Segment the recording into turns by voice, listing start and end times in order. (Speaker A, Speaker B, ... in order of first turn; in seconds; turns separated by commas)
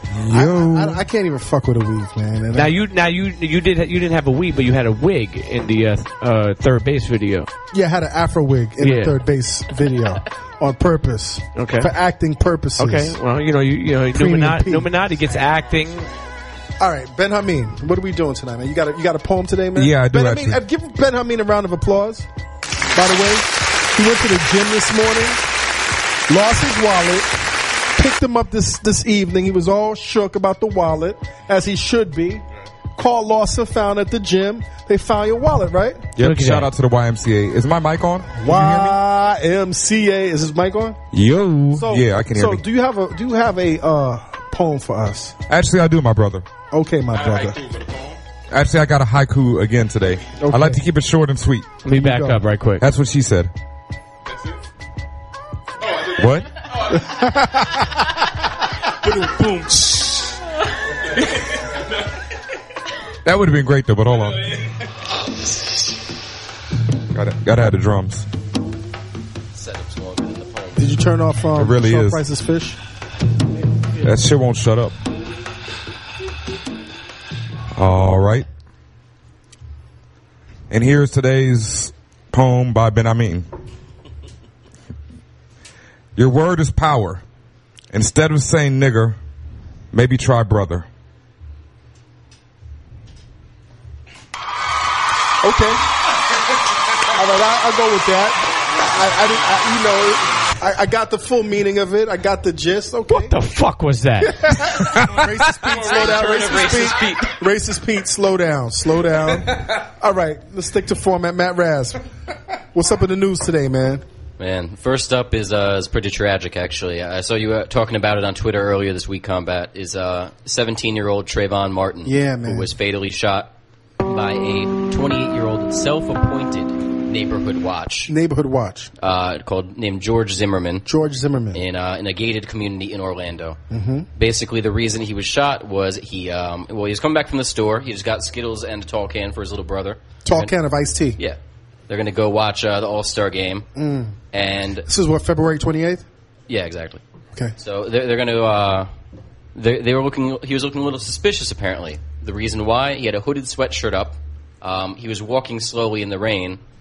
Speaker A: 0.2-1.0, Speaker B: 0.3-2.7, Speaker C: 2.5-7.5, Speaker B: 7.7-13.2, Speaker C: 8.8-9.2, Speaker C: 11.6-11.9, Speaker C: 12.8-16.1, Speaker B: 14.1-14.9, Speaker B: 16.8-22.3, Speaker A: 19.8-20.6, Speaker B: 22.9-25.4, Speaker B: 26.3-27.3, Speaker B: 27.9-32.4, Speaker B: 33.0-36.1, Speaker A: 36.1-39.0, Speaker C: 36.2-36.7, Speaker B: 38.4-41.0, Speaker A: 41.1-42.6, Speaker B: 41.7-45.3, Speaker A: 45.5-46.5, Speaker B: 46.7-47.6, Speaker D: 47.1-48.2, Speaker A: 48.5-51.7, Speaker B: 50.4-50.8, Speaker C: 51.8-52.8, Speaker B: 51.9-52.4, Speaker A: 52.8-53.5, Speaker D: 54.3-54.6, Speaker D: 55.8-57.2, Speaker A: 56.1-56.5, Speaker B: 56.9-58.1, Speaker D: 59.1-60.0, Speaker D: 61.1-61.9, Speaker A: 63.2-64.5, Speaker D: 64.1-64.7, Speaker A: 67.1-68.2, Speaker E: 69.5-70.9, Speaker B: 70.8-72.8, Speaker A: 71.6-72.2, Speaker A: 74.0-74.9, Speaker A: 77.7-78.5, Speaker A: 80.7-83.5, Speaker A: 86.2-87.2, Speaker A: 87.9-89.2, Speaker A: 89.9-90.8, Speaker B: 95.4-95.8, Speaker B: 97.1-103.3, Speaker C: 103.1-104.8, Speaker B: 104.2-112.0, Speaker D: 105.2-107.1, Speaker E: 105.9-107.2, Speaker B: 112.7-114.0, Speaker E: 114.4-128.1, Speaker B: 122.0-122.7, Speaker B: 128.1-128.9, Speaker E: 129.0-130.8, Speaker B: 130.8-131.6, Speaker E: 131.5-133.6, Speaker B: 133.7-134.1, Speaker E: 134.1-140.5, Speaker B: 140.2-141.2, Speaker E: 141.2-143.7, Speaker B: 143.8-144.2, Speaker E: 144.3-144.8, Speaker B: 144.8-146.0, Speaker E: 146.5-147.0, Speaker E: 147.6-148.9, Speaker E: 149.5-156.6